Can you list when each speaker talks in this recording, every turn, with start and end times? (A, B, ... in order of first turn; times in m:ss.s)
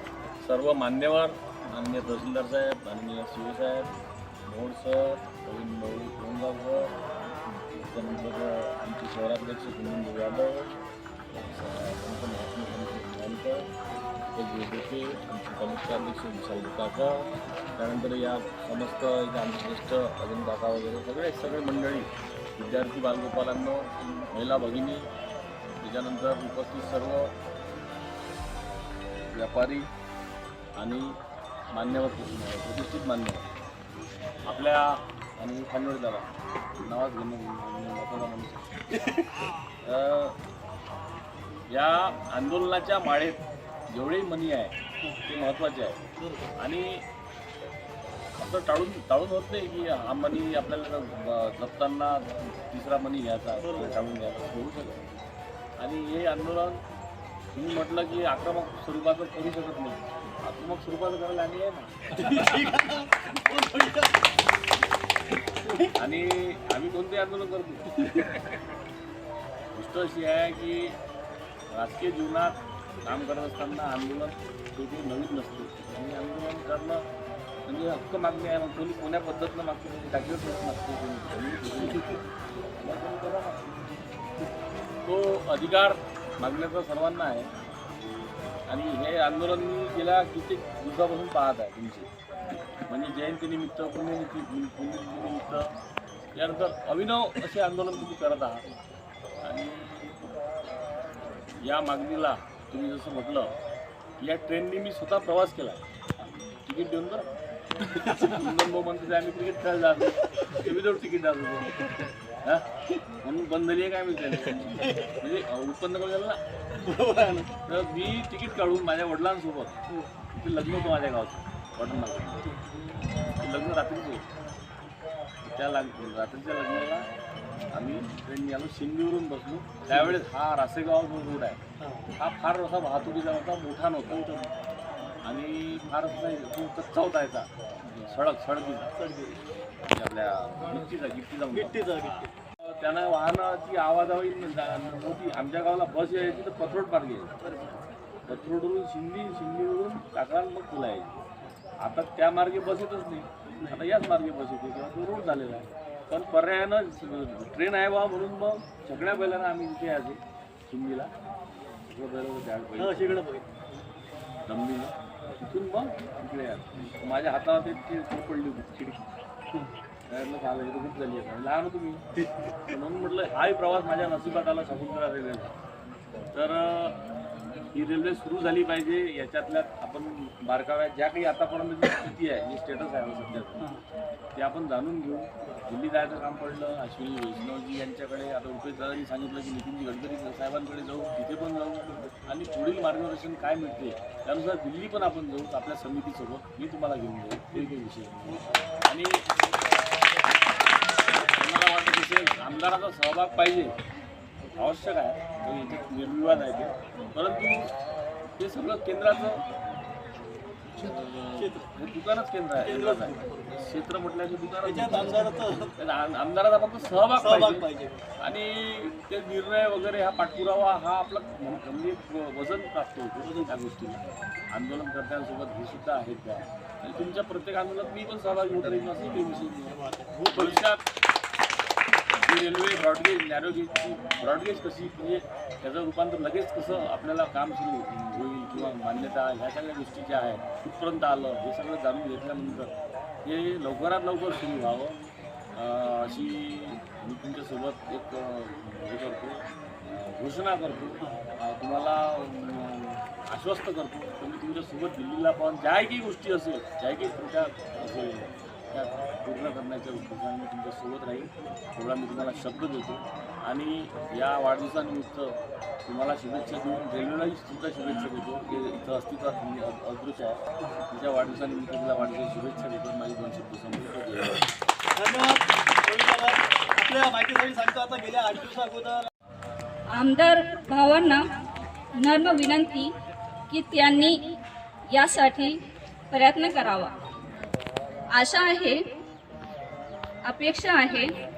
0:00.4-0:03.9 A
0:04.4-0:06.9 A
0:07.9-0:10.7 A
0:11.3-0:13.7 A
0:14.4-0:25.1 A
0:25.8-0:27.3 A
0:29.3-0:29.9 A
0:30.8-0:31.2 A
0:31.7-0:33.5 A
0:34.5-0:36.3 A
0:36.8-0:38.8 A
0:39.8-0:40.4 A
0:41.7-0:46.0 A
0:46.6-0:47.0 A
0:48.4-0:55.0 A
0:53.6-0:54.0 B
0:55.8-0:56.8 A
0:57.5-1:01.9 A
1:02.1-1:04.1 B
1:06.0-1:07.9 A
1:09.7-1:11.0 A
1:11.7-1:17.0 A
1:17.7-1:22.2 A
1:22.7-1:23.7 A
1:25.0-1:27.5 A
1:28.7-1:32.1 A
1:32.9-1:35.7 A
1:36.3-1:38.6 A
1:39.4-1:40.1 A
1:41.6-1:43.5 A
1:44.2-1:45.8 A
1:46.6-1:47.3 A
1:47.9-1:52.6 A
1:53.2-1:56.4 A
1:56.8-1:57.5 B
1:57.7-1:59.8 A
2:00.3-2:02.4 A
2:03.4-2:04.2 A
2:05.4-2:07.1 A
2:07.7-2:11.6 A
2:12.2-2:14.3 A
2:14.1-2:14.4 B
2:15.2-2:18.9 A
2:19.0-2:19.3 B
2:19.9-2:27.3 A
2:21.5-2:22.3 B
2:28.3-2:31.2 A
2:31.8-2:41.1 A
2:41.9-2:43.2 A
2:42.8-2:43.4 B
2:44.5-2:49.0 A
2:50.1-2:52.0 A
2:52.7-2:55.5 A
2:56.3-2:57.0 A
2:57.7-3:03.7 A
3:04.4-3:19.2 A
3:21.1-3:23.7 A
3:24.6-3:27.7 A
3:28.4-3:29.4 A
3:30.8-3:37.7 A
3:30.8-3:31.6 B
3:32.6-3:33.2 B
3:34.6-3:35.7 B
3:37.2-3:38.0 B
3:38.2-3:50.8 A
3:43.2-3:43.5 B
3:50.2-3:50.6 B
3:52.2-4:02.7 A
4:03.2-4:05.0 A
4:05.6-4:09.4 A
4:10.0-4:34.4 A
4:35.0-4:39.1 B
4:39.9-4:41.2 C
4:42.0-4:42.9 C
4:43.5-4:44.2 C
4:44.9-4:45.5 C
4:46.1-4:46.9 C
4:48.2-4:48.8 C
4:50.3-4:51.1 C